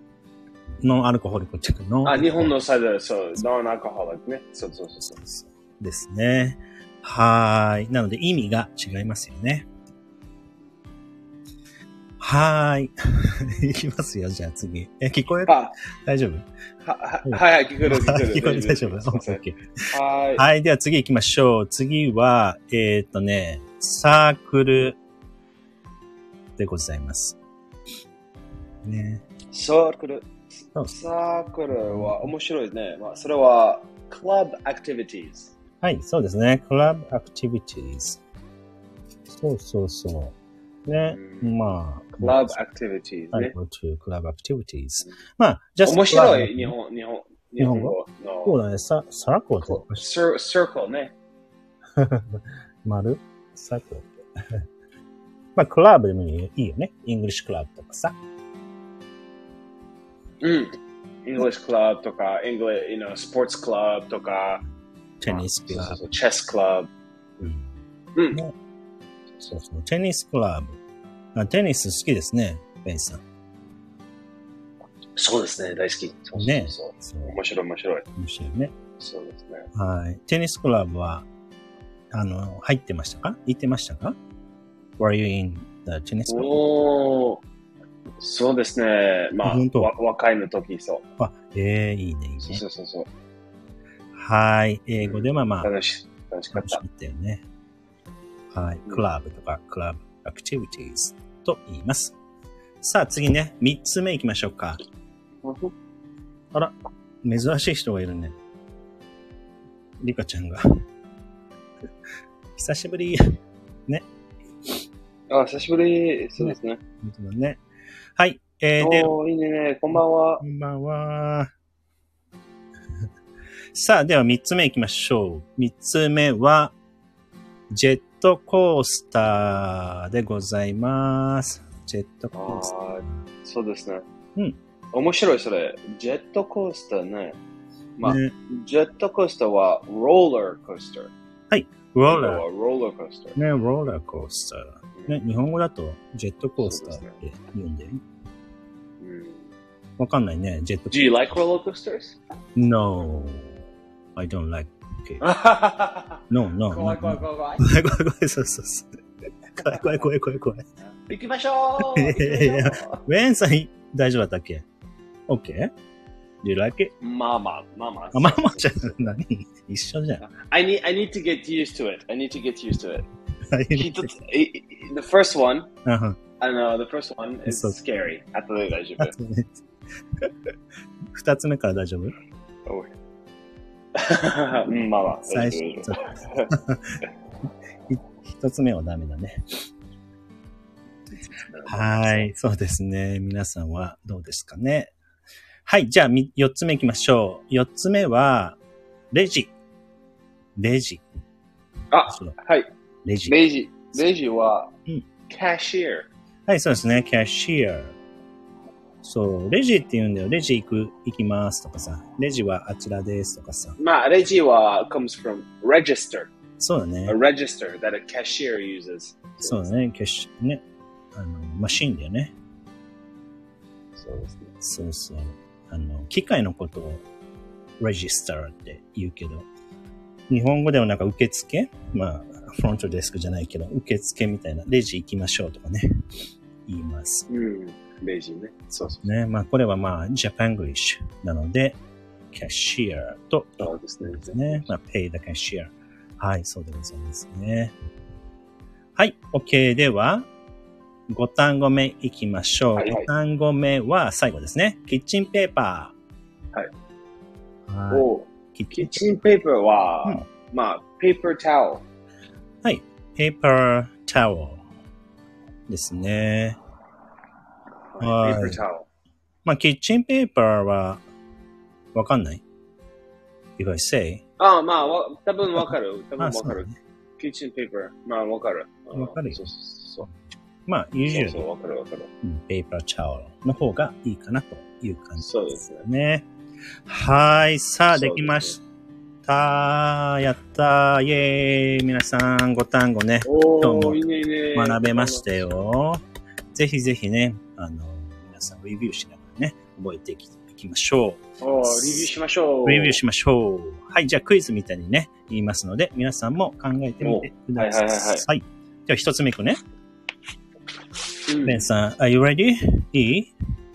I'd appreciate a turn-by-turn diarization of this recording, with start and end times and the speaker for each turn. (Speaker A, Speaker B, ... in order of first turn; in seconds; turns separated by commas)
Speaker A: 0.8-2.5, Speaker B: 2.0-5.2, Speaker A: 5.0-9.7, Speaker A: 12.2-16.4, Speaker B: 15.4-15.7, Speaker B: 16.8-19.4, Speaker A: 17.2-19.6, Speaker B: 19.9-20.4, Speaker A: 20.4-25.0, Speaker A: 26.6-27.4, Speaker A: 28.8-29.2, Speaker B: 29.5-35.5, Speaker A: 31.7-32.3, Speaker A: 35.8-38.2, Speaker A: 39.3-42.5, Speaker B: 41.1-41.6, Speaker B: 42.1-43.5, Speaker A: 43.3-46.7, Speaker B: 45.8-48.6, Speaker A: 47.6-50.0, Speaker B: 49.6-51.1, Speaker A: 52.0-54.2, Speaker A: 55.5-58.1, Speaker B: 60.4-64.6, Speaker A: 65.2-66.0, Speaker B: 65.2-66.9, Speaker A: 67.4-67.7, Speaker B: 69.3-69.6, Speaker A: 69.5-70.8, Speaker A: 71.3-73.2, Speaker B: 75.2-78.0, Speaker A: 76.3-77.4, Speaker A: 78.2-78.7, Speaker B: 79.0-79.7, Speaker A: 79.7-81.3, Speaker A: 82.1-84.2, Speaker A: 85.0-86.6, Speaker B: 86.3-87.4, Speaker B: 88.2-91.0, Speaker A: 89.4-89.9, Speaker A: 91.2-92.6, Speaker B: 92.4-93.1, Speaker A: 94.1-95.7, Speaker B: 95.0-96.8, Speaker A: 96.5-97.4, Speaker A: 98.5-102.2, Speaker A: 102.8-104.8, Speaker B: 105.4-105.7, Speaker A: 106.5-108.3, Speaker A: 110.0-110.6, Speaker A: 112.5-113.2, Speaker B: 115.3-116.8, Speaker A: 116.4-117.6, Speaker A: 118.2-119.1, Speaker B: 118.8-120.4, Speaker A: 119.9-121.5, Speaker A: 123.7-126.7, Speaker A: 127.7-132.7, Speaker B: 132.3-134.0, Speaker B: 134.9-137.4, Speaker B: 138.0-141.1, Speaker A: 138.0-138.3, Speaker A: 141.5-142.4, Speaker B: 142.1-143.4, Speaker A: 143.4-148.0, Speaker B: 144.9-145.3, Speaker B: 146.6-147.2, Speaker B: 149.0-149.5, Speaker A: 150.0-151.2, Speaker B: 150.9-152.2, Speaker A: 152.6-153.6, Speaker A: 154.1-155.2, Speaker B: 155.2-157.7, Speaker A: 156.3-158.9, Speaker A: 159.6-160.6, Speaker B: 159.7-160.1, Speaker B: 161.0-163.0, Speaker A: 161.9-164.6, Speaker A: 165.3-165.7, Speaker A: 166.4-166.9, Speaker B: 167.0-169.0, Speaker A: 168.1-170.2, Speaker B: 170.2-173.1, Speaker A: 173.5-174.1, Speaker B: 173.7-175.7, Speaker A: 175.8-176.2, Speaker B: 176.4-179.1, Speaker A: 177.5-177.8, Speaker A: 179.0-179.5, Speaker A: 181.1-182.1, Speaker B: 183.9-186.5, Speaker A: 185.3-187.0, Speaker A: 187.9-189.4, Speaker B: 191.3-192.3, Speaker A: 191.7-194.9, Speaker A: 195.6-198.6, Speaker A: 199.1-199.5, Speaker A: 200.6-201.0, Speaker B: 201.9-202.7, Speaker A: 202.1-202.3, Speaker A: 203.0-203.4, Speaker B: 203.3-204.7, Speaker B: 205.3-206.1, Speaker A: 206.5-207.9, Speaker A: 209.0-213.8, Speaker B: 213.8-216.3, Speaker A: 216.6-217.2, Speaker B: 217.1-219.7, Speaker A: 219.4-220.6, Speaker A: 221.1-222.3, Speaker B: 223.9-224.5, Speaker A: 224.6-227.0, Speaker A: 227.8-229.5, Speaker A: 230.3-235.8, Speaker A: 236.7-237.3, Speaker B: 237.3-239.1, Speaker A: 239.0-241.8, Speaker A: 242.3-247.7, Speaker B: 243.6-244.7, Speaker A: 248.9-250.3, Speaker A: 251.1-255.9, Speaker B: 252.8-253.1, Speaker A: 257.7-259.0, Speaker B: 257.9-261.8, Speaker A: 262.6-264.6, Speaker A: 265.7-266.6, Speaker B: 267.9-268.9, Speaker A: 268.0-268.6, Speaker A: 269.4-271.0, Speaker A: 271.9-272.4, Speaker A: 273.6-274.2, Speaker B: 274.4-276.7, Speaker A: 275.6-276.8, Speaker B: 277.2-280.1, Speaker A: 278.9-279.4, Speaker A: 280.7-281.4, Speaker B: 281.0-282.1, Speaker A: 282.2-286.3, Speaker B: 285.2-285.9, Speaker A: 286.9-288.6, Speaker B: 287.9-288.6, Speaker A: 289.2-294.0, Speaker B: 293.2-295.4, Speaker A: 294.5-296.0, Speaker A: 296.5-302.1, Speaker B: 301.4-303.0, Speaker A: 302.6-309.6, Speaker B: 307.0-308.2, Speaker B: 311.2-311.7, Speaker A: 311.4-313.3